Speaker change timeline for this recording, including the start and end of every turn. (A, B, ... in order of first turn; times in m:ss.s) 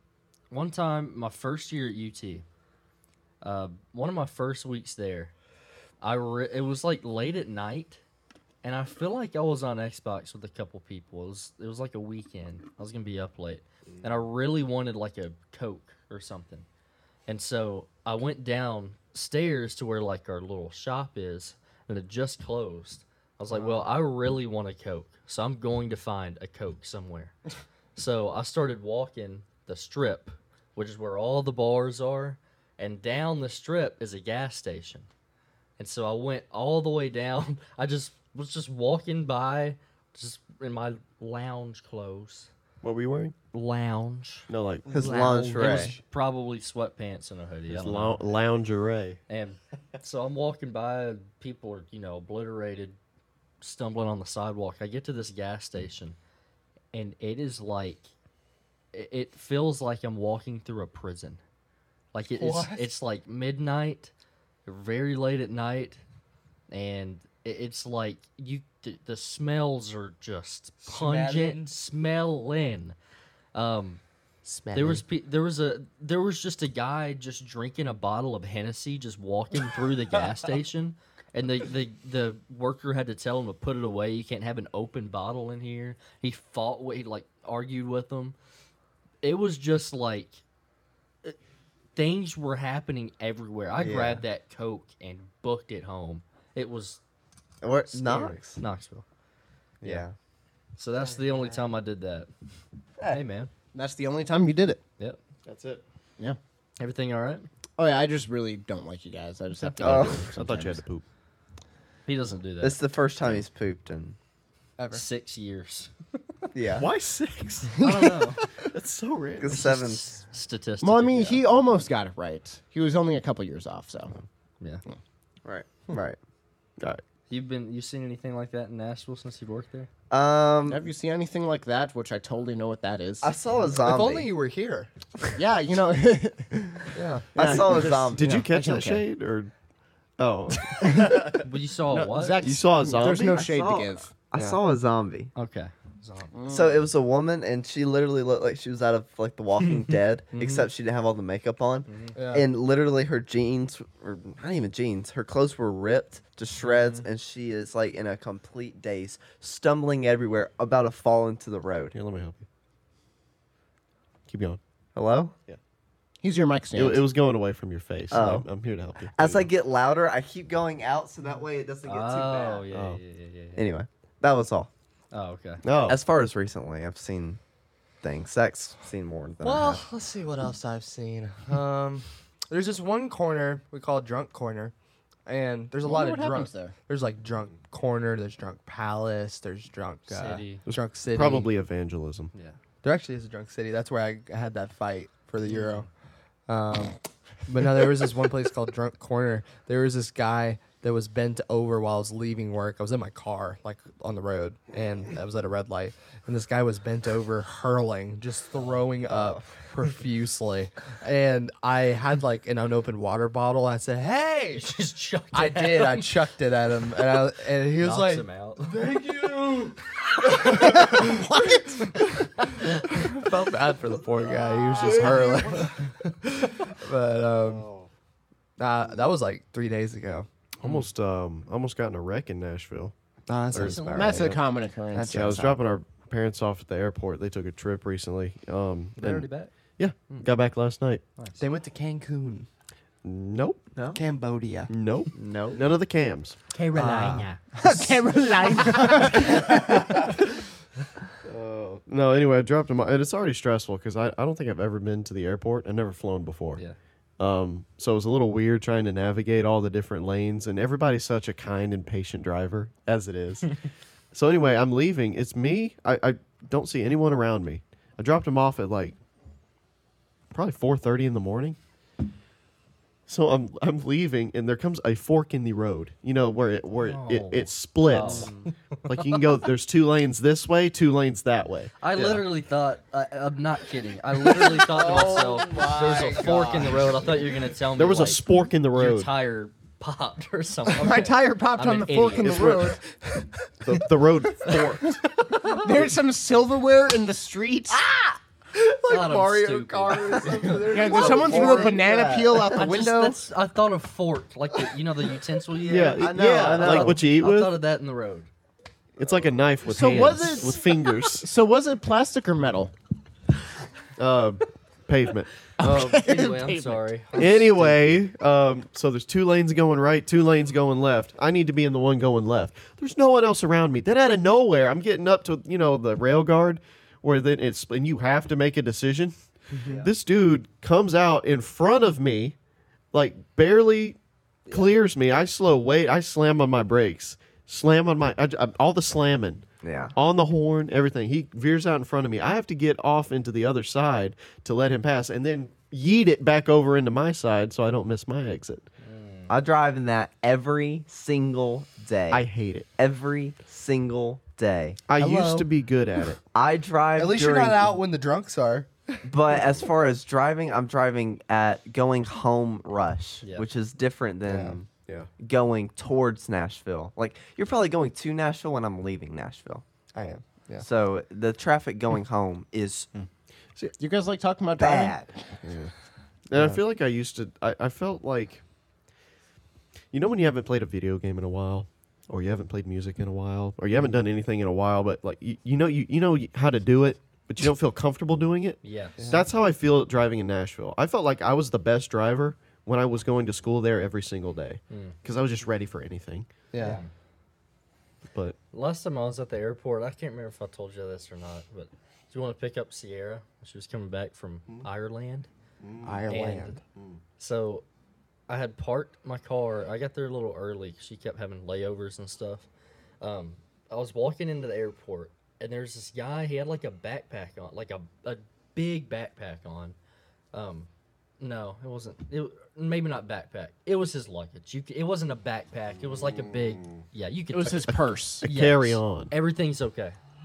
0:00.5-0:02.4 A
0:03.4-0:05.3 A
0:06.0-0:08.0 A
0:08.6-0:16.7 A
0:17.3-0:27.4 A
0:23.5-0:23.9 B
0:28.0-0:35.1 A
0:35.8-0:42.5 A
0:42.8-0:43.4 C
0:43.5-0:44.5 A
0:44.5-0:44.9 C
0:44.9-0:46.0 D
0:44.9-0:46.0 B
0:45.1-0:48.3 A
0:47.7-0:49.2 C
0:49.3-0:53.0 A
0:53.6-0:56.2 A
0:56.9-0:58.1 A
0:58.9-1:01.4 A
1:02.1-1:04.1 A
1:02.3-1:02.9 B
1:04.7-1:06.0 A
1:06.7-1:13.0 A
1:10.8-1:11.7 B
1:13.5-1:14.0 A
1:14.4-1:15.0 B
1:14.7-1:28.4 A
1:29.2-1:30.4 A
1:32.0-1:37.0 A
1:33.8-1:34.2 D
1:37.6-1:38.6 D
1:37.9-1:39.0 A
1:39.8-1:40.1 D
1:40.8-1:42.3 A
1:41.0-1:41.6 B
1:43.1-1:43.5 A
1:43.7-1:44.8 E
1:45.5-1:45.8 C
1:46.8-1:47.5 A
1:47.8-1:50.7 E
1:49.8-1:50.3 D
1:49.8-1:50.8 A
1:50.0-1:51.0 C
1:52.1-1:53.4 A
1:52.6-1:54.2 D
1:54.8-1:55.0 B
1:54.9-1:55.9 A
1:56.5-1:56.9 D
1:56.8-1:57.8 C
1:57.8-1:58.3 E
1:57.8-1:58.5 A
1:58.7-1:59.6 C
1:59.4-2:00.1 D
1:59.5-2:01.4 A
2:00.8-2:04.2 E
2:05.4-2:06.2 D
2:07.3-2:09.9 A
2:10.1-2:10.9 D
2:10.7-2:13.3 E
2:13.2-2:14.3 D
2:13.8-2:14.9 B
2:15.4-2:19.0 E
2:16.9-2:17.3 B
2:17.4-2:18.4 D
2:18.1-2:19.5 C
2:20.2-2:21.4 C
2:20.8-2:24.1 E
2:21.4-2:22.4 A
2:22.4-2:23.5 C
2:23.1-2:25.3 D
2:25.4-2:26.3 A
2:26.3-2:26.9 E
2:26.5-2:42.0 D
2:29.7-2:30.7 A
2:31.9-2:32.2 A
2:32.2-2:32.5 B
2:41.9-2:42.4 C
2:44.3-2:44.6 C
2:45.0-2:45.4 D
2:46.2-2:47.1 E
2:46.8-2:49.5 C
2:48.1-2:48.5 D
2:49.1-2:52.7 D
2:51.8-2:53.7 A
2:52.7-2:53.0 C
2:53.6-2:54.7 D
2:55.1-2:55.6 A
2:55.6-2:56.0 C
2:55.9-2:57.4 D
2:58.0-2:59.8 D
2:59.4-3:04.7 B
3:05.3-3:11.5 B
3:05.9-3:06.7 E
3:10.1-3:10.6 A
3:10.7-3:12.3 C
3:12.8-3:15.9 B
3:15.4-3:15.9 A
3:16.5-3:34.7 B
3:29.1-3:29.4 D
3:34.5-3:36.1 A
3:35.3-3:39.1 B
3:37.8-3:38.8 A
3:40.3-3:41.2 A
3:40.3-3:41.6 B
3:40.5-3:41.9 E
3:42.0-3:43.1 A
3:42.9-3:47.7 B
3:44.8-3:45.2 E
3:44.9-3:45.3 C
3:47.5-3:47.9 C
3:48.6-3:50.3 B
3:50.6-3:52.9 C
3:53.3-3:55.6 B
3:53.5-3:53.8 C
3:53.5-3:54.3 A
3:53.8-3:55.5 E
3:55.1-4:01.0 C
3:59.0-3:59.5 A
4:01.2-4:01.4 A
4:01.4-4:02.5 B
4:03.0-4:03.7 C
4:03.8-4:04.0 D
4:04.0-4:04.7 B
4:04.7-4:06.4 C
4:05.1-4:05.6 D
4:06.5-4:07.4 A
4:06.7-4:09.7 B
4:07.6-4:09.8 E
4:11.3-4:16.6 C
4:17.2-4:29.0 C
4:30.3-4:31.6 C
4:33.1-4:42.3 C
4:36.8-4:39.1 A
4:41.8-4:52.7 A
4:44.3-4:47.1 B
4:47.8-4:49.1 C
4:50.8-4:52.8 E
4:52.2-4:52.8 C
4:52.9-4:53.8 B
4:53.6-4:55.0 C
4:54.6-4:57.8 E
4:57.7-5:01.9 B
4:58.9-5:01.1 A
5:00.1-5:02.6 D
5:00.7-5:03.2 E
5:02.5-5:08.3 A
5:05.7-5:07.6 C
5:05.9-5:07.0 D
5:09.0-5:11.3 C
5:09.7-5:12.7 E
5:14.0-5:16.0 C
5:15.6-5:16.9 E
5:15.6-5:17.8 A
5:17.2-5:29.1 C
5:29.6-5:29.9 D
5:29.8-5:32.4 C
5:32.9-5:34.0 C
5:34.5-5:48.6 C
5:39.6-5:39.9 D
5:48.8-5:49.3 A
5:49.3-5:54.8 D
5:52.1-5:52.7 C
5:54.9-5:56.2 C
5:55.0-5:55.5 B
5:56.3-5:57.7 D
5:57.0-5:59.0 B
5:59.0-6:09.6 D
6:04.3-6:04.6 B
6:09.9-6:10.6 B
6:10.6-6:12.9 D
6:13.8-6:15.7 E
6:14.6-6:15.2 D
6:16.3-6:18.4 C
6:19.9-6:36.3 C
6:28.6-6:29.0 A
6:29.0-6:29.2 B
6:34.7-6:35.0 A
6:36.5-6:36.8 B
6:36.6-6:36.9 A
6:38.5-6:45.3 A
6:45.6-6:46.0 C
6:45.8-6:46.6 B
6:46.1-6:46.6 A
6:47.2-6:47.6 A
6:48.3-6:52.5 A
6:53.0-6:59.8 A
7:00.3-7:00.7 A
7:01.2-7:10.0 A
7:07.3-7:08.2 E
7:08.2-7:09.1 C